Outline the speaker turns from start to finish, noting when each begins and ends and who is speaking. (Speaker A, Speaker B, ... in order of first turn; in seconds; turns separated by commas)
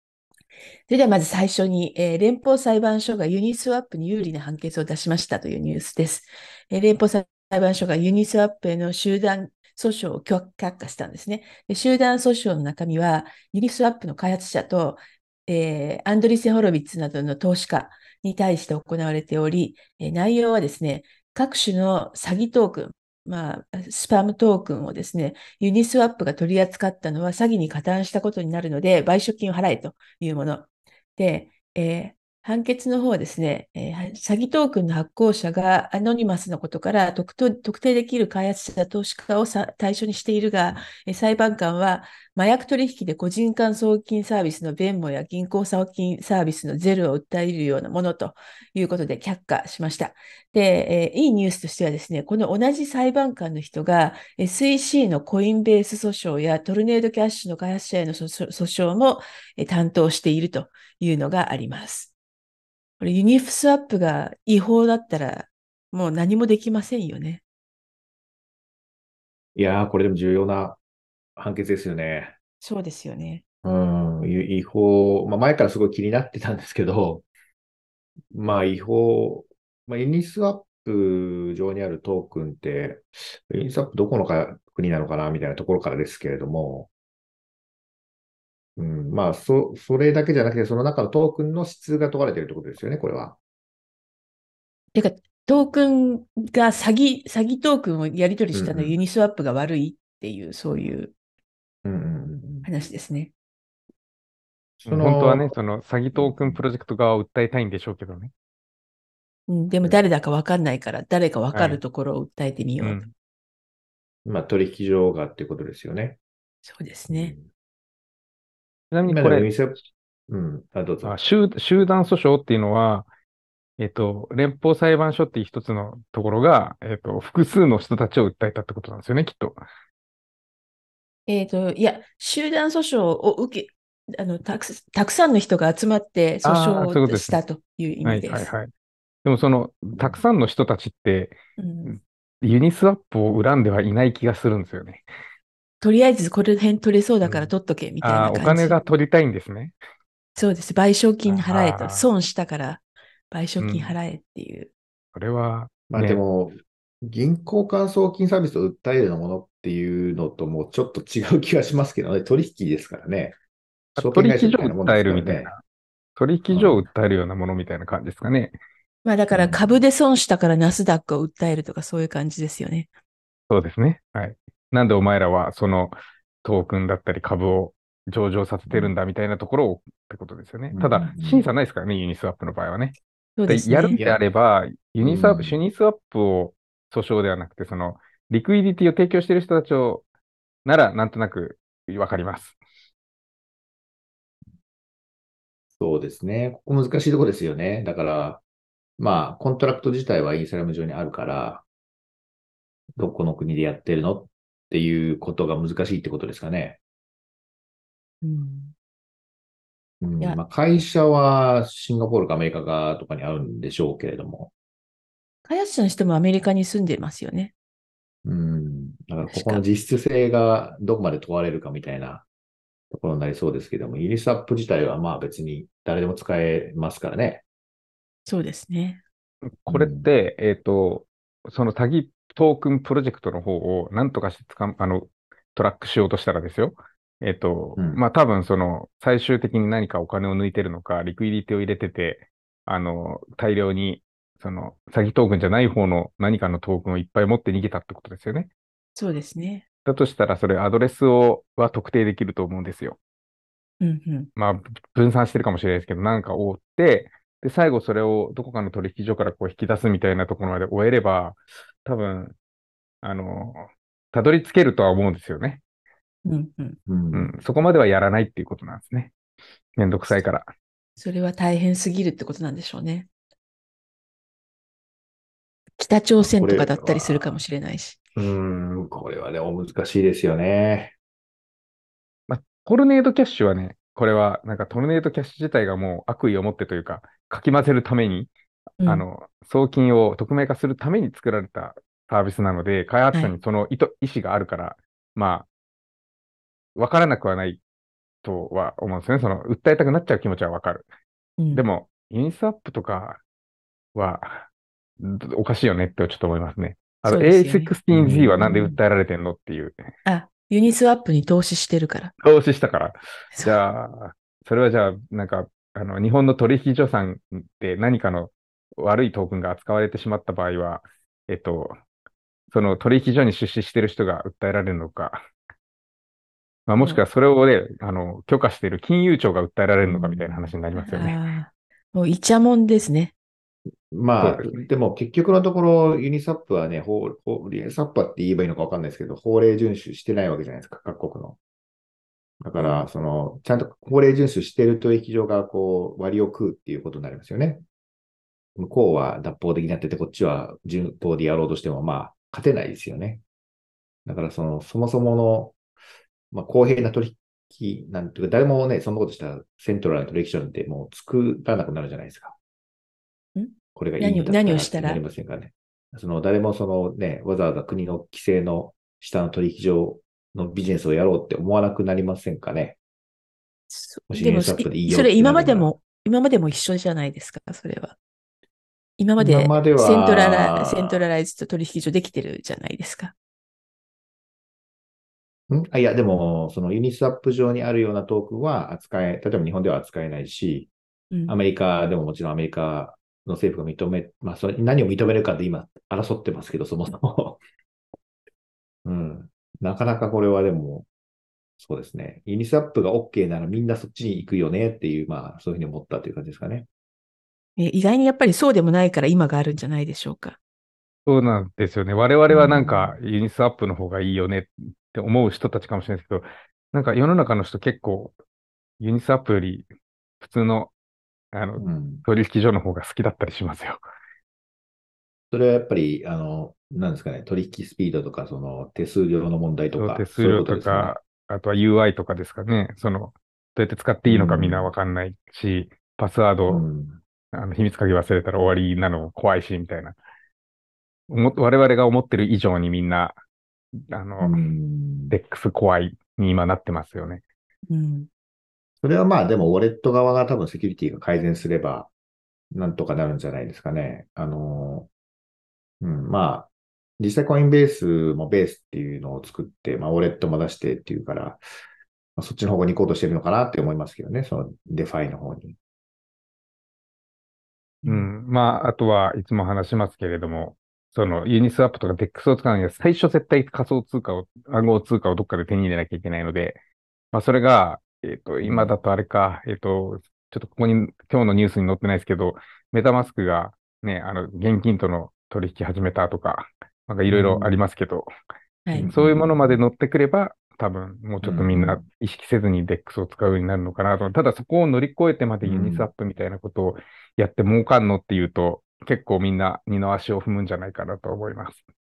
Speaker A: 0.9-62.1, Speaker A: 63.0-67.4, Speaker B: 69.5-70.8, Speaker B: 71.4-72.3, Speaker A: 72.6-73.4, Speaker B: 73.6-77.2, Speaker B: 78.3-86.9, Speaker B: 88.8-93.4, Speaker A: 94.9-101.1, Speaker B: 98.5-99.0, Speaker B: 101.8-102.7, Speaker A: 102.6-103.3, Speaker B: 104.8-105.5, Speaker C: 104.8-108.3, Speaker B: 106.1-106.7, Speaker A: 109.5-113.0, Speaker C: 111.5-111.8, Speaker C: 112.8-113.1, Speaker B: 114.2-116.2, Speaker A: 116.6-117.3, Speaker B: 117.1-117.5, Speaker C: 118.9-119.5, Speaker B: 119.0-121.1, Speaker C: 121.0-123.1, Speaker C: 123.8-129.6, Speaker A: 131.3-138.5, Speaker C: 136.4-137.4, Speaker C: 138.0-138.7, Speaker C: 139.2-145.0, Speaker B: 139.9-140.2, Speaker A: 141.6-142.0, Speaker A: 145.8-148.8, Speaker C: 148.0-149.7, Speaker A: 150.4-154.7, Speaker C: 151.2-152.1, Speaker C: 153.6-154.0, Speaker C: 155.1-156.2, Speaker B: 155.9-163.3, Speaker C: 163.9-165.6, Speaker B: 164.0-165.5, Speaker C: 166.2-168.6, Speaker B: 166.5-166.9, Speaker A: 169.0-172.9, Speaker B: 169.3-169.8, Speaker C: 173.5-190.0, Speaker B: 178.7-178.9, Speaker B: 180.7-181.5, Speaker A: 183.4-184.0, Speaker B: 183.9-184.2, Speaker B: 185.0-185.6, Speaker C: 190.6-192.6, Speaker B: 195.8-198.4, Speaker B: 199.0-201.6, Speaker B: 203.0-206.8, Speaker A: 208.2-208.7, Speaker B: 210.0-214.5, Speaker A: 215.4-217.5, Speaker B: 218.2-222.2, Speaker A: 219.3-219.6, Speaker B: 222.9-227.4, Speaker A: 228.3-229.0, Speaker C: 229.5-248.5, Speaker B: 229.7-230.1, Speaker B: 237.8-238.0, Speaker A: 248.9-249.6, Speaker C: 249.8-253.0, Speaker A: 253.8-254.3, Speaker C: 254.3-262.3, Speaker C: 263.0-265.6, Speaker A: 266.2-266.8, Speaker B: 266.9-267.3, Speaker C: 267.1-269.1, Speaker C: 269.8-270.5, Speaker A: 271.0-273.1, Speaker A: 275.8-278.0, Speaker B: 276.2-277.3, Speaker B: 278.1-280.9, Speaker C: 282.3-288.3, Speaker A: 288.8-289.1, Speaker C: 288.9-295.5, Speaker C: 296.8-297.6, Speaker C: 298.2-300.8, Speaker A: 301.4-301.6, Speaker C: 301.5-303.2, Speaker C: 303.9-304.5, Speaker C: 305.0-309.8, Speaker A: 307.0-307.7, Speaker B: 307.9-308.8, Speaker A: 310.0-312.1, Speaker C: 312.2-321.8, Speaker A: 313.3-313.6, Speaker C: 322.5-325.2, Speaker C: 326.7-331.2, Speaker A: 326.8-327.0, Speaker B: 330.0-330.5, Speaker A: 330.7-333.1, Speaker B: 333.9-341.4, Speaker C: 334.2-334.7, Speaker B: 342.4-347.6, Speaker A: 342.6-342.8, Speaker B: 348.6-353.2, Speaker B: 354.0-355.6, Speaker B: 356.3-362.4, Speaker A: 363.3-365.0, Speaker B: 363.7-372.8, Speaker A: 373.7-377.9, Speaker B: 374.1-375.7, Speaker A: 379.0-383.1, Speaker B: 379.2-381.1, Speaker B: 385.5-390.7, Speaker A: 391.1-391.4, Speaker B: 391.3-397.4, Speaker B: 398.8-400.9, Speaker B: 401.6-406.7, Speaker A: 407.6-410.4, Speaker C: 411.1-418.1, Speaker B: 412.3-413.0, Speaker C: 418.8-419.7, Speaker C: 420.2-420.7, Speaker C: 421.3-423.8, Speaker B: 421.6-422.0, Speaker B: 425.3-430.9, Speaker C: 429.8-436.6, Speaker B: 434.0-434.7, Speaker B: 436.5-437.0, Speaker C: 437.3-439.9, Speaker C: 441.1-443.2, Speaker C: 443.9-444.4, Speaker B: 444.2-445.1, Speaker C: 445.1-447.2, Speaker A: 447.7-448.1, Speaker B: 448.8-451.9, Speaker B: 452.5-454.9, Speaker B: 455.8-461.4, Speaker B: 462.1-465.6, Speaker C: 467.8-476.6, Speaker C: 477.1-488.1, Speaker B: 478.4-478.7, Speaker B: 487.1-487.5, Speaker A: 488.6-488.9, Speaker B: 488.7-489.6, Speaker C: 488.8-501.6, Speaker B: 491.2-491.8, Speaker B: 495.4-495.9